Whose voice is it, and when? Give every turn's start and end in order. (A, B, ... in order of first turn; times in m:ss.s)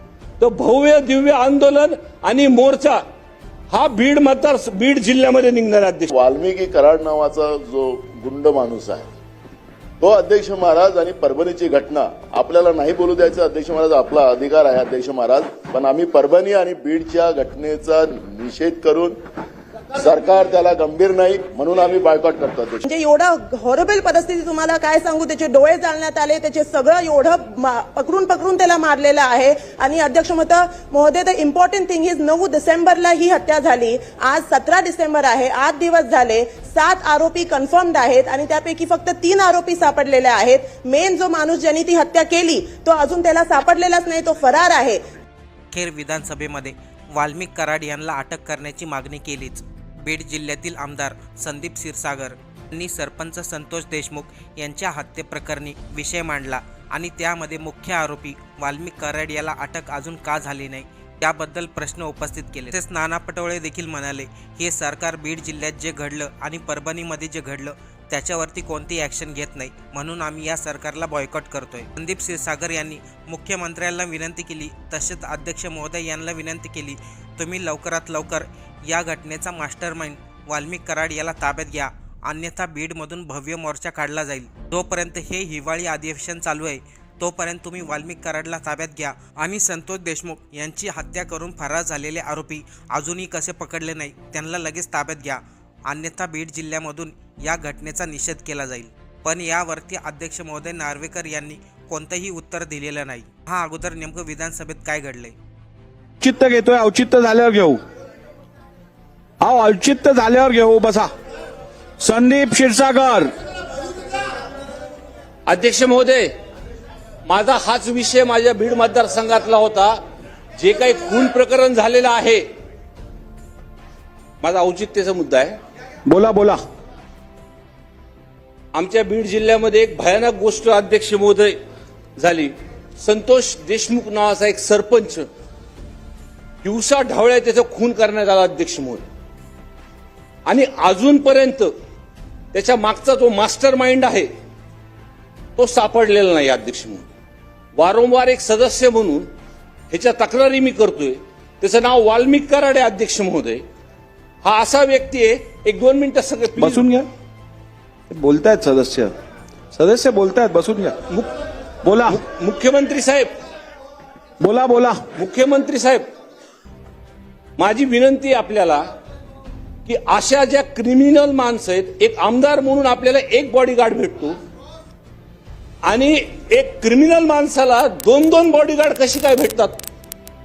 0:00.4-0:03.0 A
0:03.7-0:06.1 A
0:06.1-0:09.0 B
0:10.0-0:19.2 B
0:19.9-0:22.8 B
0:22.8-0:45.0 C
0:45.7-1:45.4 D
1:46.2-1:47.8 E
1:49.4-1:51.1 E
1:52.0-1:53.3 E
1:55.5-1:56.3 A
1:57.3-2:00.0 A
2:00.6-2:02.4 A
2:04.4-2:05.6 A
2:06.1-2:06.6 E
2:08.7-2:11.6 A
2:12.2-2:15.3 A
2:16.6-2:19.0 A
2:20.5-2:21.7 A
2:22.5-2:24.3 A
2:25.6-2:27.1 A
2:27.8-2:29.3 A
2:29.9-2:33.6 A
2:34.4-2:36.9 A
2:36.6-2:37.1 E
2:38.1-2:39.2 E
2:39.7-2:41.0 E
2:41.8-2:42.2 E
2:42.1-2:43.3 A
2:44.4-2:45.0 E
2:45.2-2:46.0 A
2:47.6-2:48.9 A
2:49.9-2:54.4 A
2:55.8-2:59.8 A